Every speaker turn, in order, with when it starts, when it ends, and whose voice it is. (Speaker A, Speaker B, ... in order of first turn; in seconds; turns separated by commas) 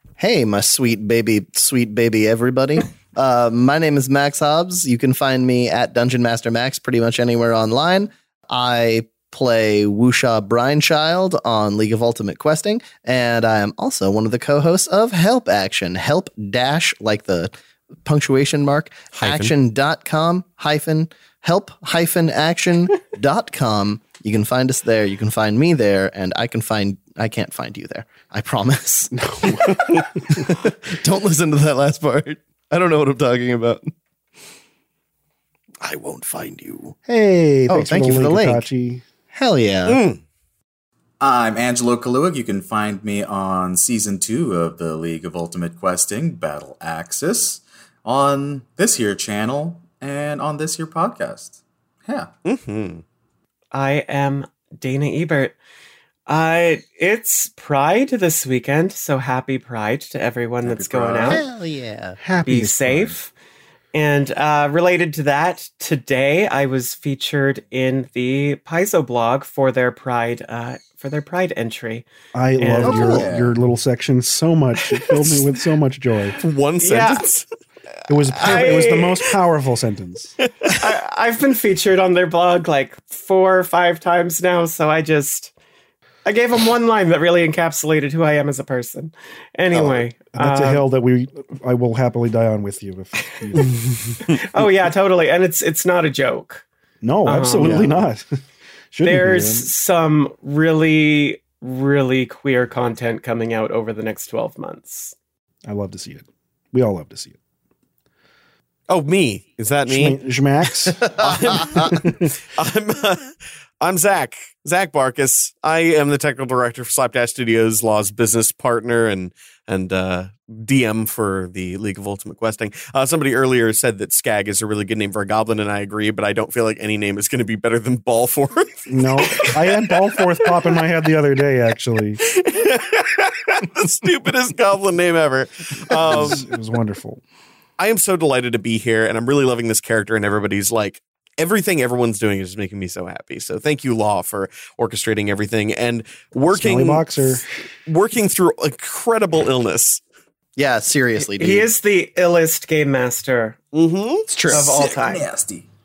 Speaker A: 0.2-33.9, Speaker B: 19.1-19.5, Speaker C: 29.1-30.5, Speaker B: 35.8-36.9, Speaker C: 37.1-39.0, Speaker A: 37.7-38.7, Speaker A: 39.3-40.0, Speaker B: 39.9-40.2, Speaker D: 41.2-52.3, Speaker B: 52.5-53.0, Speaker E: 53.7-55.6, Speaker E: 56.3-61.4, Speaker D: 60.6-61.4, Speaker A: 61.2-62.2, Speaker C: 62.2-63.2, Speaker E: 62.5-63.3, Speaker E: 63.9-72.1, Speaker C: 72.3-76.4, Speaker E: 72.6-73.2, Speaker A: 72.8-73.2, Speaker D: 73.0-73.6, Speaker B: 76.4-77.5, Speaker E: 76.8-77.3, Speaker C: 78.1-80.3, Speaker B: 78.1-78.7, Speaker E: 78.4-79.1, Speaker B: 80.5-80.7, Speaker E: 80.8-85.5, Speaker E: 86.2-90.9, Speaker A: 89.7-90.0, Speaker C: 90.3-93.8, Speaker B: 93.6-94.4, Speaker E: 94.2-96.7, Speaker C: 97.0-98.3, Speaker E: 97.2-97.8, Speaker A: 97.6-97.9, Speaker C: 98.9-99.7, Speaker E: 99.0-105.2, Speaker C: 105.7-107.4, Speaker B: 108.9-110.2, Speaker C: 109.9-112.3, Speaker B: 110.9-130.7, Speaker C: 128.9-132.2, Speaker B: 132.2-136.5, Speaker C: 135.9-137.2, Speaker B: 137.8-150.0, Speaker C: 146.5-147.4, Speaker A: 150.6-151.7, Speaker E: 151.2-153.6, Speaker B: 153.7-154.3, Speaker A: 154.3-154.7, Speaker E: 154.5-155.2, Speaker D: 154.5-155.7